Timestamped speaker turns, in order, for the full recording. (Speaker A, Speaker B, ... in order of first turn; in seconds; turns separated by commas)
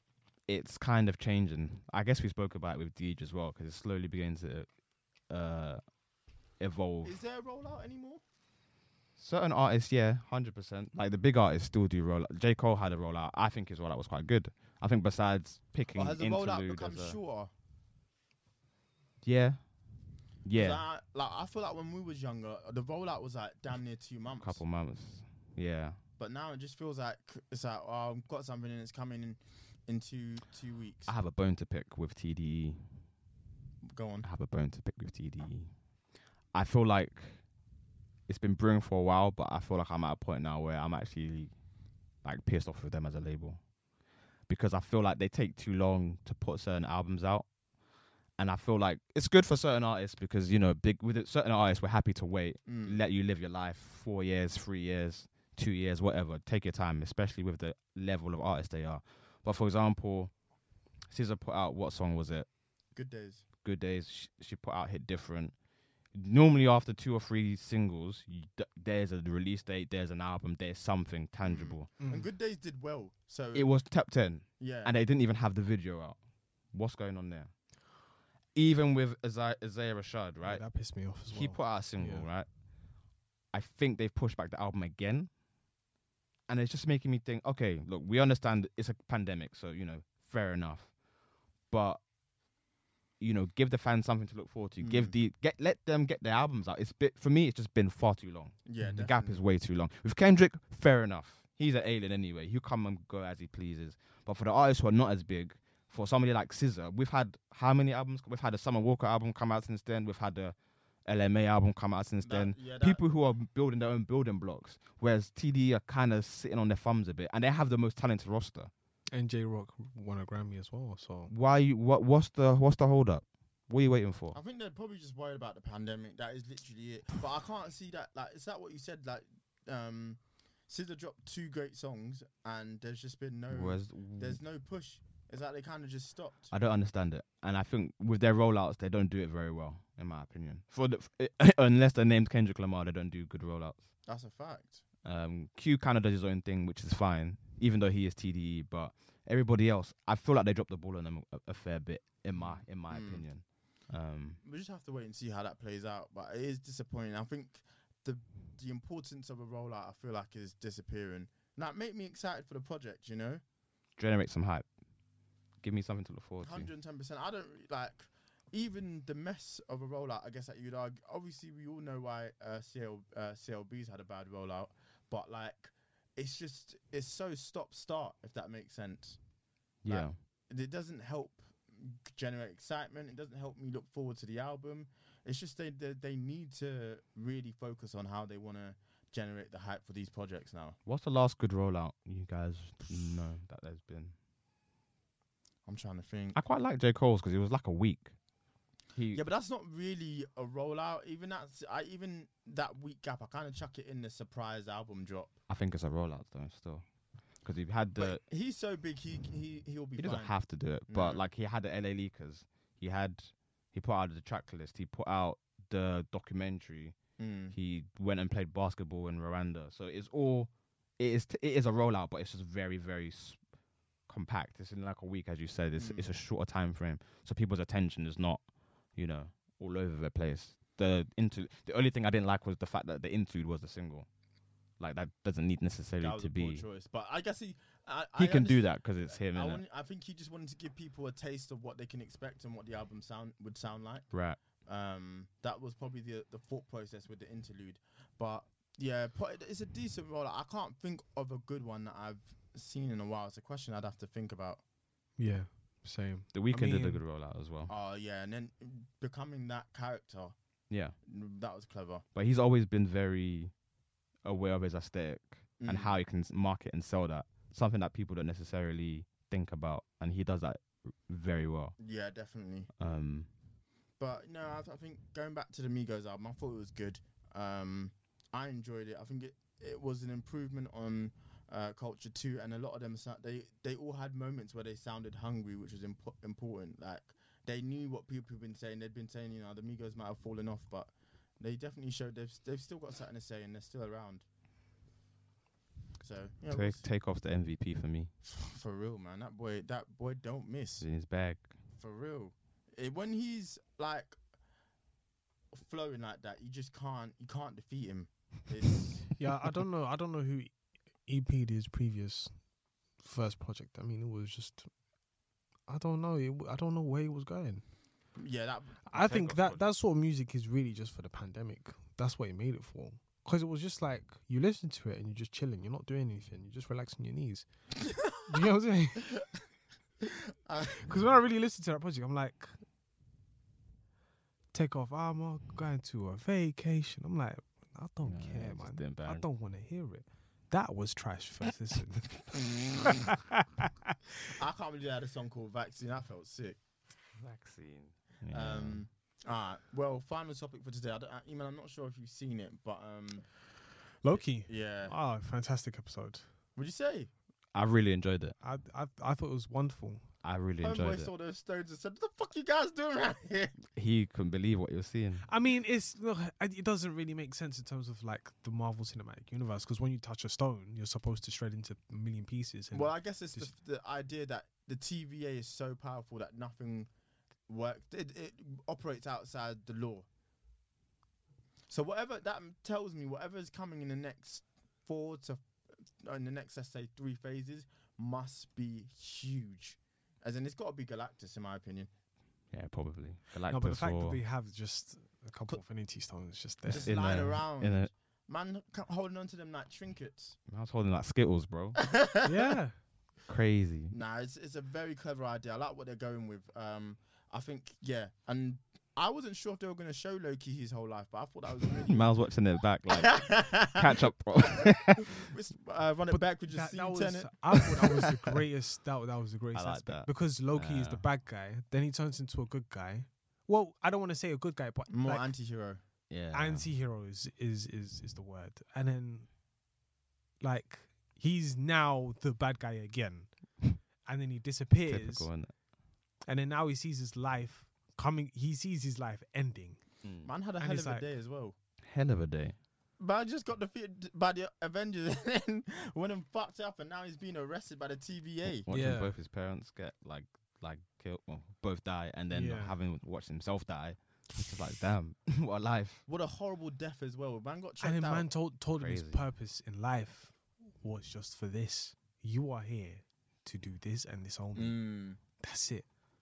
Speaker A: 0.5-4.7, Speaker A: 5.3-5.8, Speaker A: 6.6-7.2, Speaker B: 7.0-8.2, Speaker A: 9.2-17.2, Speaker B: 15.9-17.5, Speaker A: 19.2-19.6, Speaker A: 20.4-20.8, Speaker B: 20.6-24.6, Speaker A: 24.4-26.0, Speaker B: 26.2-31.1, Speaker A: 31.1-32.9, Speaker B: 33.9-34.3, Speaker A: 34.2-35.7, Speaker A: 36.5-37.4, Speaker A: 38.3-41.5, Speaker A: 42.2-43.6, Speaker A: 44.5-47.5, Speaker A: 48.4-60.3, Speaker B: 52.7-53.0, Speaker A: 61.1-62.5, Speaker B: 63.0-63.5, Speaker A: 63.6-65.5, Speaker A: 66.1-71.9, Speaker B: 71.4-73.7, Speaker C: 72.0-72.3, Speaker A: 73.5-76.2, Speaker B: 74.6-74.9, Speaker A: 76.7-77.5, Speaker A: 78.5-82.5, Speaker C: 80.4-82.3, Speaker A: 83.5-85.3, Speaker A: 86.5-91.0, Speaker A: 91.7-92.0, Speaker A: 93.2-118.7, Speaker B: 94.8-95.2, Speaker B: 98.7-99.4, Speaker B: 112.2-113.0, Speaker C: 119.1-121.3, Speaker A: 121.3-124.4, Speaker B: 124.3-136.5, Speaker A: 133.5-134.4, Speaker A: 136.5-143.9, Speaker B: 144.1-144.8, Speaker A: 145.0-154.4, Speaker B: 152.4-153.2, Speaker B: 154.4-163.4, Speaker A: 164.0-164.7, Speaker A: 165.6-166.7, Speaker B: 166.4-179.2, Speaker A: 179.8-180.2, Speaker B: 179.9-190.8, Speaker A: 190.9-194.2, Speaker B: 195.7-196.4, Speaker A: 196.3-198.1, Speaker A: 198.9-199.2, Speaker B: 199.1-205.3, Speaker A: 205.5-206.8, Speaker A: 207.4-208.2, Speaker B: 208.0-210.3, Speaker A: 210.0-217.0, Speaker B: 210.9-211.2, Speaker B: 217.2-217.6, Speaker A: 217.5-223.4, Speaker A: 224.1-234.1, Speaker B: 225.8-226.1, Speaker A: 234.8-236.7, Speaker B: 236.0-244.1, Speaker A: 238.2-239.6, Speaker A: 244.1-244.4, Speaker B: 244.6-254.6, Speaker C: 255.2-257.0, Speaker A: 256.3-257.7, Speaker B: 257.7-260.4, Speaker A: 260.7-260.9, Speaker B: 261.1-262.0, Speaker A: 262.1-263.5, Speaker A: 264.2-271.8, Speaker B: 265.6-265.9, Speaker B: 271.8-272.7, Speaker A: 272.8-273.3, Speaker B: 274.0-294.2, Speaker B: 296.0-296.9, Speaker A: 296.5-298.1, Speaker B: 298.2-300.9, Speaker A: 300.8-301.5, Speaker B: 301.8-304.2, Speaker B: 305.5-309.1, Speaker C: 309.2-310.5, Speaker C: 311.1-312.3, Speaker C: 313.0-314.7, Speaker C: 315.7-317.6, Speaker B: 318.2-318.9, Speaker C: 318.9-327.5, Speaker A: 318.9-319.7, Speaker B: 327.8-328.3, Speaker C: 328.2-329.1, Speaker B: 330.0-330.9, Speaker C: 330.7-332.6, Speaker C: 334.5-342.3, Speaker A: 338.0-339.3, Speaker B: 342.3-343.0, Speaker C: 342.9-343.9, Speaker B: 344.3-346.6, Speaker A: 347.2-348.9, Speaker B: 348.3-353.3, Speaker C: 354.0-356.2, Speaker B: 354.4-354.9, Speaker B: 356.6-357.1, Speaker A: 357.5-358.4, Speaker C: 358.4-360.0, Speaker A: 360.2-361.1, Speaker B: 360.6-363.6, Speaker A: 363.7-365.3, Speaker C: 365.3-373.5, Speaker B: 372.7-376.9, Speaker B: 377.5-380.1, Speaker B: 381.7-385.4, Speaker B: 386.0-391.9, Speaker A: 392.5-394.2, Speaker C: 393.5-396.9, Speaker B: 396.7-400.4, Speaker A: 396.7-397.9, Speaker A: 400.5-401.8, Speaker B: 401.8-402.5, Speaker C: 402.2-402.8, Speaker A: 403.3-404.0, Speaker B: 403.9-412.1, Speaker A: 411.9-415.2, Speaker B: 412.9-414.0, Speaker B: 414.5-418.0, Speaker C: 416.1-425.3, Speaker A: 419.5-421.1, Speaker B: 424.9-425.8, Speaker A: 426.1-426.7, Speaker C: 426.3-429.3, Speaker C: 430.4-435.3, Speaker A: 434.9-435.6, Speaker C: 436.3-439.8, Speaker A: 440.0-440.3, Speaker B: 440.2-441.6, Speaker C: 440.6-441.1, Speaker A: 441.8-442.6, Speaker B: 443.0-448.7, Speaker A: 448.4-456.0, Speaker C: 448.7-449.1, Speaker C: 452.3-452.8, Speaker B: 456.1-458.3, Speaker C: 457.8-465.9, Speaker A: 458.8-459.2, Speaker B: 464.6-465.2